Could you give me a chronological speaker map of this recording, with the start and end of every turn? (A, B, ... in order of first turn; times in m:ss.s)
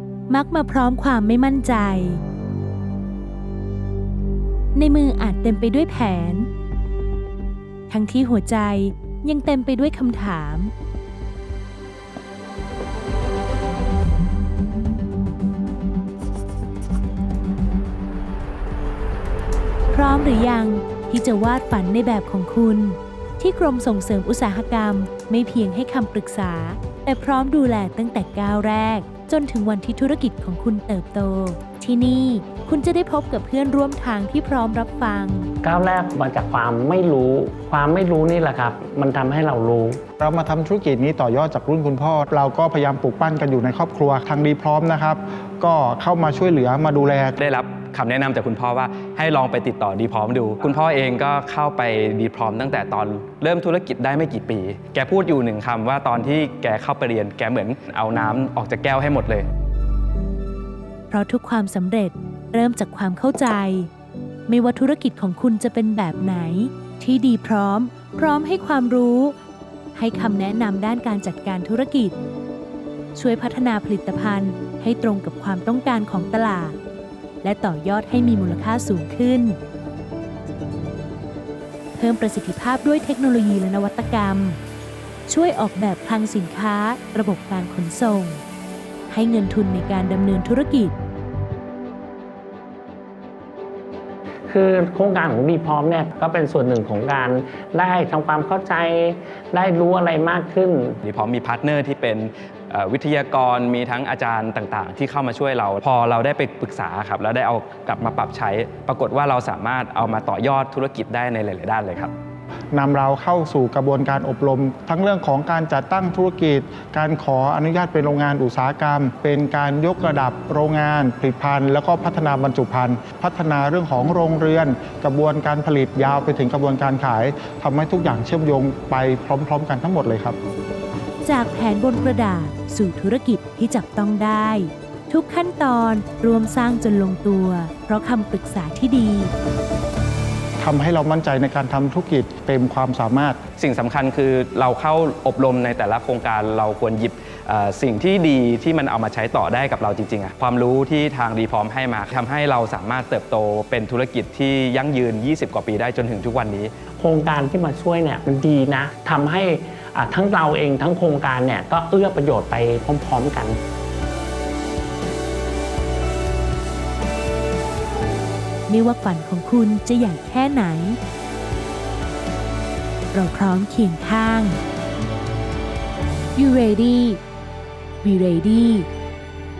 0:00.3-0:02.2 A
0:04.7-0:06.5 A
0:07.9-0:10.7 A
0:19.9-0:35.5 A
0:35.6-0:40.0 B
0:40.2-0:47.4 C
0:47.4-0:59.4 D
1:01.1-1:03.9 A
1:04.5-1:09.4 A
1:09.9-1:12.2 A
1:13.1-1:16.8 A
1:17.4-1:19.6 A
1:22.0-1:24.6 A
1:25.3-1:28.4 A
1:29.1-1:30.9 A
1:34.5-1:41.0 B
1:41.0-1:52.1 D
1:52.7-2:10.4 C
2:11.2-2:19.3 A
2:20.6-2:23.4 C
2:23.6-2:36.7 D
2:37.0-2:43.6 B
2:48.7-2:51.0 A
2:53.1-2:54.6 A
2:56.4-2:57.2 A
2:58.0-2:58.9 A